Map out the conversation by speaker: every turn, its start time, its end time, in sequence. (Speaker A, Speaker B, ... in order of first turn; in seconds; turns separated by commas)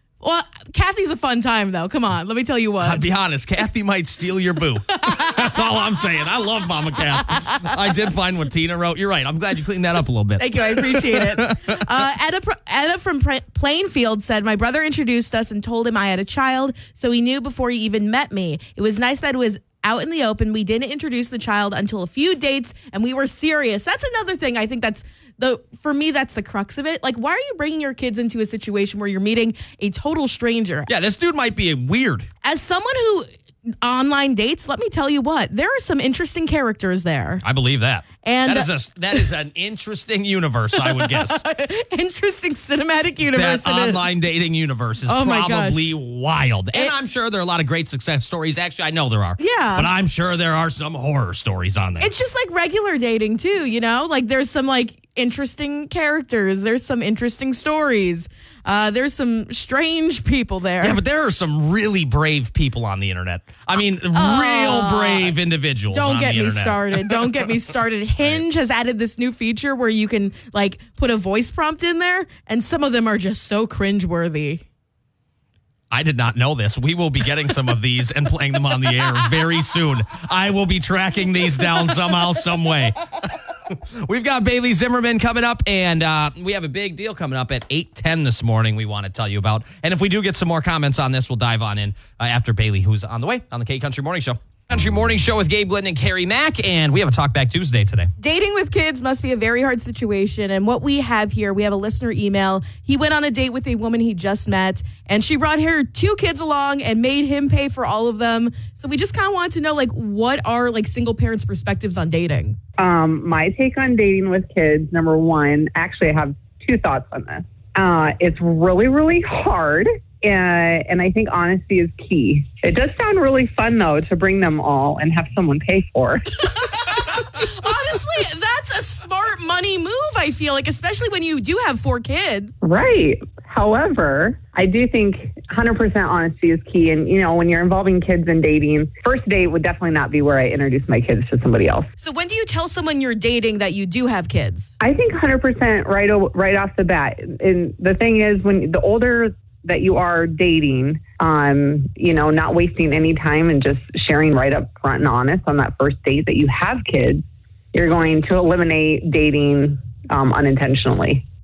Speaker A: 0.2-3.1, Speaker B: 2.8-12.0, Speaker A: 4.9-5.7, Speaker A: 10.4-30.9, Speaker B: 30.9-32.3, Speaker A: 32.4-33.3, Speaker A: 33.8-37.4, Speaker B: 37.4-41.4, Speaker A: 38.2-39.3, Speaker A: 40.7-44.1, Speaker B: 43.3-52.1, Speaker A: 45.1-45.9, Speaker A: 49.4-49.9, Speaker A: 52.0-61.0, Speaker B: 60.8-67.5, Speaker A: 64.1-65.3, Speaker A: 65.9-74.6, Speaker B: 75.9-98.1, Speaker A: 98.2-112.6, Speaker C: 112.8-126.5, Speaker A: 126.5-132.5, Speaker C: 132.6-141.9, Speaker A: 142.0-144.8, Speaker C: 144.8-161.2